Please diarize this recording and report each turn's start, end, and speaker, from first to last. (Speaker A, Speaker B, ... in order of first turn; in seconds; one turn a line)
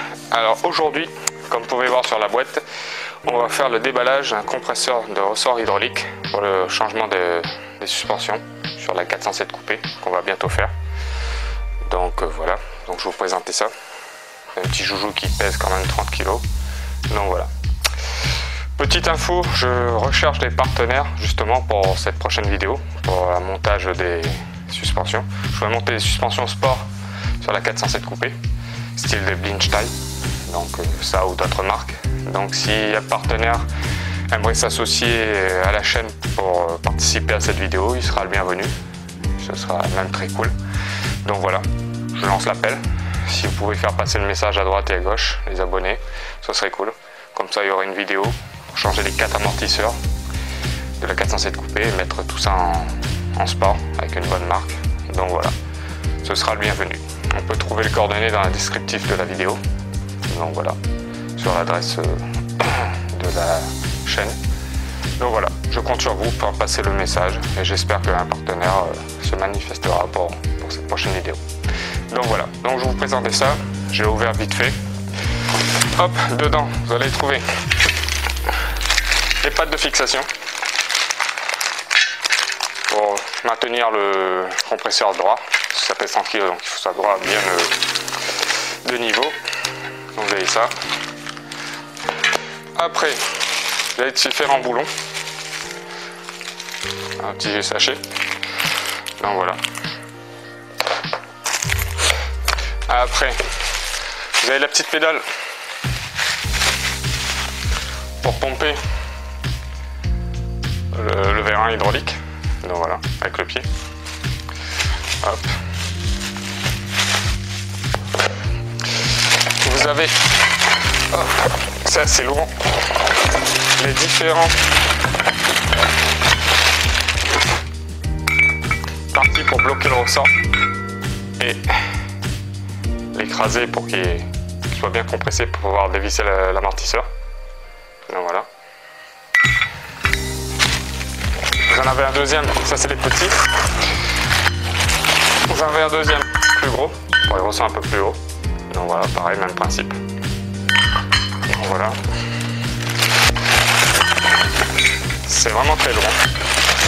Speaker A: 0.3-2.6
Speaker A: 3.2-10.7
Speaker A: 11.8-13.7
Speaker A: 14.5-16.4
Speaker A: 17.1-17.5
Speaker A: 18.8-26.9
Speaker A: 27.4-28.4
Speaker A: 28.9-29.9
Speaker A: 30.4-33.7
Speaker A: 34.3-38.7
Speaker A: 39.3-40.5
Speaker A: 41.2-50.0
Speaker A: 51.0-55.5
Speaker A: 56.2-59.6
Speaker A: 60.2-60.8
Speaker A: 61.3-64.4
Speaker A: 65.2-71.4
Speaker A: 72.1-74.8
Speaker A: 75.8-77.5
Speaker A: 79.4-80.3
Speaker A: 82.9-87.8
Speaker A: 88.8-89.4
Speaker A: 90.1-90.7
Speaker A: 92.7-94.9
Speaker A: 97.2-98.0
Speaker A: 99.2-99.6
Speaker A: 102.8-103.5
Speaker A: 104.4-105.3
Speaker A: 108.2-108.8
Speaker A: 110.9-113.7
Speaker A: 115.2-115.6
Speaker A: 119.6-120.3
Speaker A: 121.1-122.6
Speaker A: 123.8-124.6
Speaker A: 129.1-130.3
Speaker A: 131.4-131.9
Speaker A: 133.1-137.1
Speaker A: 138.1-138.5
Speaker A: 141.6-143.5
Speaker A: 145.4-150.0
Speaker A: 151.5-152.0
Speaker A: 155.2-156.2